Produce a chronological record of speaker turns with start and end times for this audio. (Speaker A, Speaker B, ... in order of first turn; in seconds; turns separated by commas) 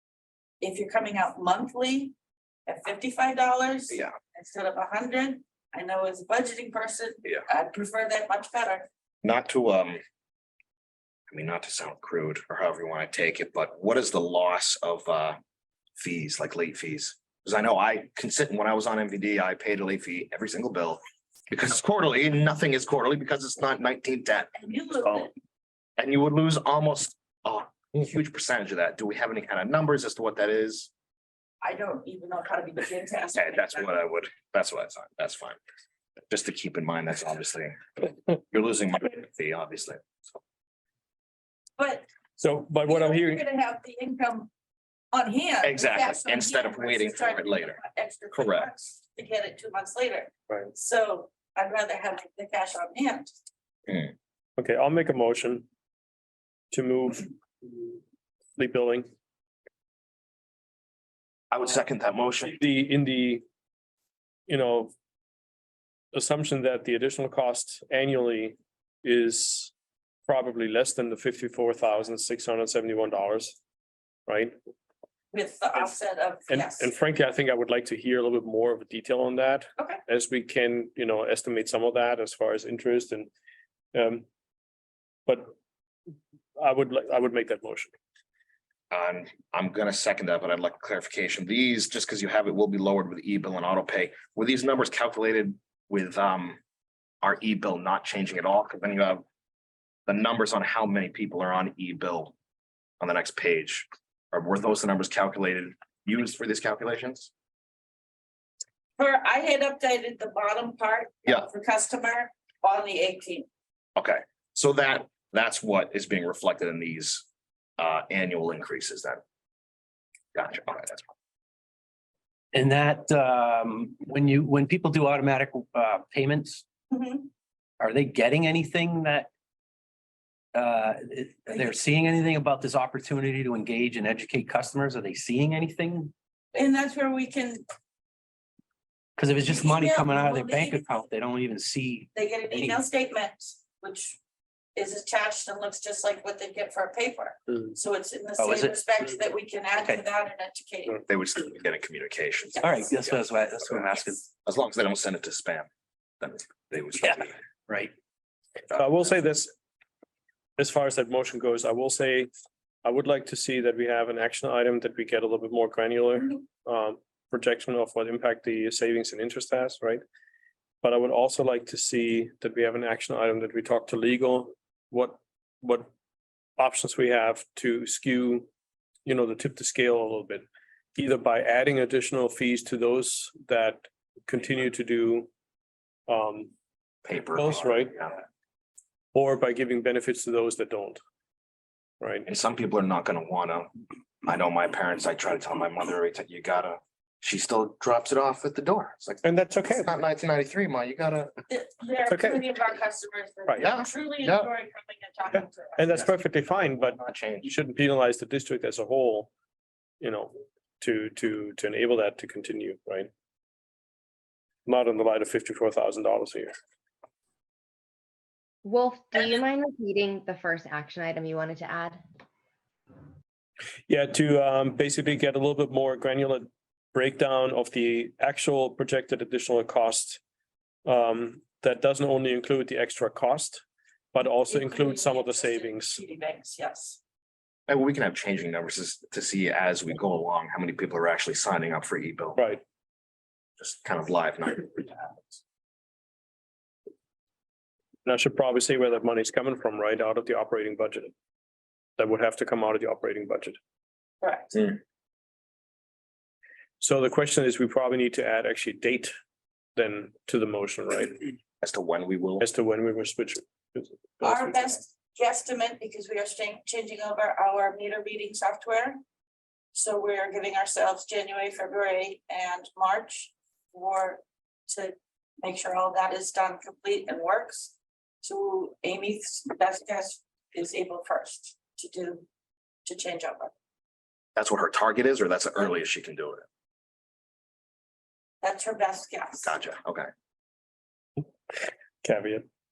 Speaker A: 0.6-2.1, Speaker A: 2.7-8.9, Speaker B: 9.2-10.0, Speaker B: 11.3-15.4, Speaker B: 16.0-24.5, Speaker A: 24.5-25.3, Speaker B: 25.0-25.3, Speaker B: 26.0-30.9, Speaker A: 31.6-33.9, Speaker B: 33.3-35.6, Speaker B: 36.3-37.8, Speaker B: 38.5-40.2, Speaker A: 41.8-42.1, Speaker C: 42.4-43.4, Speaker A: 42.8-44.5, Speaker A: 45.1-53.3, Speaker B: 45.6-47.8, Speaker B: 48.3-48.7, Speaker C: 54.6-55.6, Speaker C: 56.7-57.3, Speaker C: 58.5-59.1, Speaker B: 61.5-62.6, Speaker C: 62.5-63.4, Speaker C: 64.5-64.9, Speaker C: 66.1-69.7, Speaker C: 70.3-73.6, Speaker C: 74.3-74.5, Speaker A: 75.3-76.9, Speaker C: 76.5-83.3, Speaker C: 83.9-84.2, Speaker C: 85.2-85.5, Speaker C: 86.6-87.9, Speaker B: 88.9-96.6, Speaker B: 97.2-99.2, Speaker B: 100.1-102.3, Speaker B: 103.0-107.3, Speaker A: 109.0-113.5, Speaker B: 114.0-117.2, Speaker B: 117.8-119.2, Speaker B: 120.3-121.1, Speaker D: 122.5-126.6, Speaker A: 126.9-127.3, Speaker D: 127.8-129.3, Speaker D: 130.5-136.1, Speaker A: 136.5-137.6, Speaker D: 139.2-142.8, Speaker A: 139.4-141.1, Speaker A: 142.1-144.2, Speaker A: 144.8-151.0, Speaker D: 148.4-148.8, Speaker B: 151.1-152.7, Speaker D: 152.6-154.2, Speaker B: 154.4-155.7, Speaker B: 156.2-157.4, Speaker B: 158.7-159.1, Speaker C: 158.7-159.5, Speaker C: 160.6-162.3, Speaker C: 162.8-170.0, Speaker C: 170.8-175.9, Speaker C: 176.6-178.5, Speaker C: 179.0-185.3, Speaker C: 186.1-186.5, Speaker B: 187.0-188.2, Speaker C: 187.3-188.0, Speaker C: 189.1-191.0, Speaker C: 192.0-192.2, Speaker B: 192.2-193.7, Speaker B: 194.2-201.3, Speaker C: 199.2-199.9, Speaker A: 201.5-206.1, Speaker C: 202.1-202.4, Speaker C: 203.5-203.7, Speaker B: 203.6-204.5, Speaker C: 205.8-209.3, Speaker B: 206.6-207.5, Speaker C: 210.0-213.1, Speaker C: 214.7-216.5, Speaker E: 218.6-222.0, Speaker C: 223.9-230.2, Speaker C: 230.8-236.0, Speaker A: 234.4-237.0, Speaker B: 237.7-242.4, Speaker C: 242.3-242.6, Speaker B: 243.6-245.4, Speaker C: 248.0-251.1, Speaker C: 252.0-253.6, Speaker A: 254.2-254.6, Speaker C: 256.8-259.1, Speaker C: 259.8-261.2, Speaker B: 261.6-262.4, Speaker C: 262.4-264.8, Speaker A: 264.2-269.0, Speaker A: 269.7-282.2, Speaker A: 282.8-283.5, Speaker B: 284.4-286.4, Speaker A: 288.4-289.5, Speaker B: 289.4-290.1, Speaker C: 292.0-292.4